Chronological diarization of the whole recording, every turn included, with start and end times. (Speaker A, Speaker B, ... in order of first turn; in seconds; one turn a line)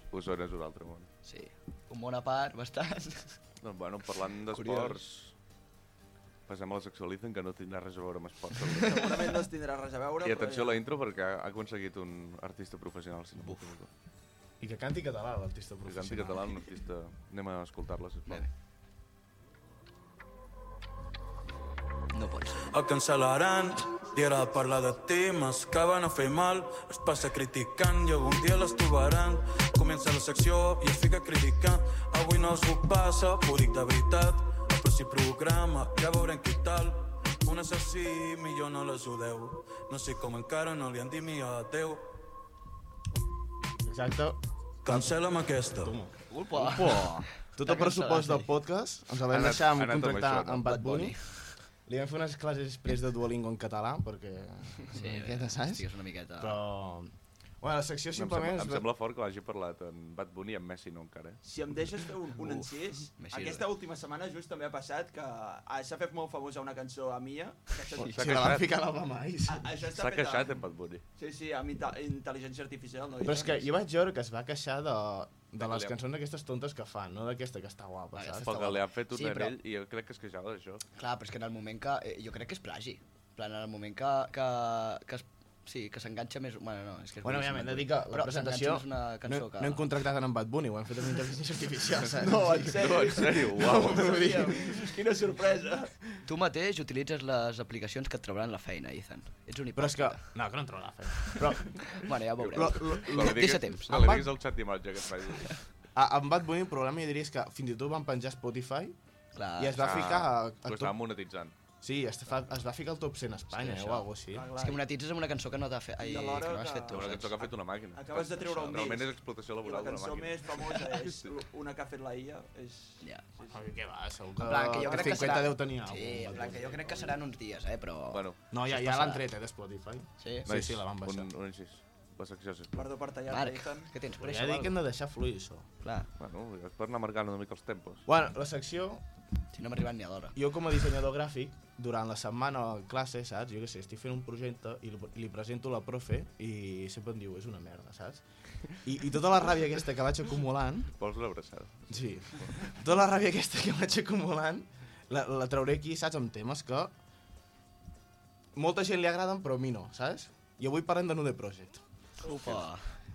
Speaker A: 0.1-1.1
Speaker B: 1.2-3.4
Speaker A: 3.6-5.3
Speaker B: 4.5-5.0
Speaker A: 6.5-9.2
Speaker C: 8.8-10.8
Speaker A: 10.2-13.9
Speaker B: 13.4-13.7
Speaker D: 14.6-16.6
Speaker A: 15.9-18.5
Speaker B: 22.1-22.7
Speaker E: 22.6-42.1
Speaker D: 43.8-45.2
Speaker E: 44.9-46.0
Speaker D: 45.7-58.9
Speaker B: 46.3-48.5
Speaker A: 49.3-50.7
Speaker B: 50.6-51.6
Speaker B: 54.9-56.6
Speaker A: 58.1-61.4
Speaker C: 61.4-68.6
Speaker B: 62.4-63.7
Speaker D: 68.0-69.7
Speaker A: 68.1-68.7
Speaker C: 69.5-70.5
Speaker A: 69.9-71.0
Speaker C: 71.2-73.7
Speaker D: 73.2-78.8
Speaker A: 75.6-76.0
Speaker B: 78.1-79.5
Speaker A: 78.4-80.8
Speaker B: 81.0-89.9
Speaker D: 87.2-95.0
Speaker C: 92.2-95.9
Speaker A: 92.7-94.5
Speaker B: 96.2-100.2
Speaker D: 99.8-104.3
Speaker B: 101.9-104.2
Speaker A: 102.4-105.6
Speaker D: 106.0-109.0
Speaker B: 109.3-109.9
Speaker D: 109.6-111.0
Speaker A: 109.8-111.5
Speaker D: 111.8-114.5
Speaker B: 113.5-117.4
Speaker C: 114.3-114.8
Speaker C: 116.0-123.7
Speaker A: 116.9-121.3
Speaker D: 123.5-127.1
Speaker B: 124.4-129.2
Speaker C: 124.8-125.4
Speaker A: 128.1-128.4
Speaker D: 128.5-131.3
Speaker B: 130.2-130.5
Speaker A: 130.5-132.9
Speaker C: 132.8-133.9
Speaker B: 133.3-134.8
Speaker D: 134.2-135.7
Speaker B: 135.8-136.1
Speaker A: 136.2-138.1
Speaker D: 138.1-139.0
Speaker B: 139.5-140.4
Speaker D: 140.3-150.9
Speaker A: 151.0-152.7
Speaker D: 151.9-156.9
Speaker D: 158.6-161.8
Speaker B: 162.2-162.9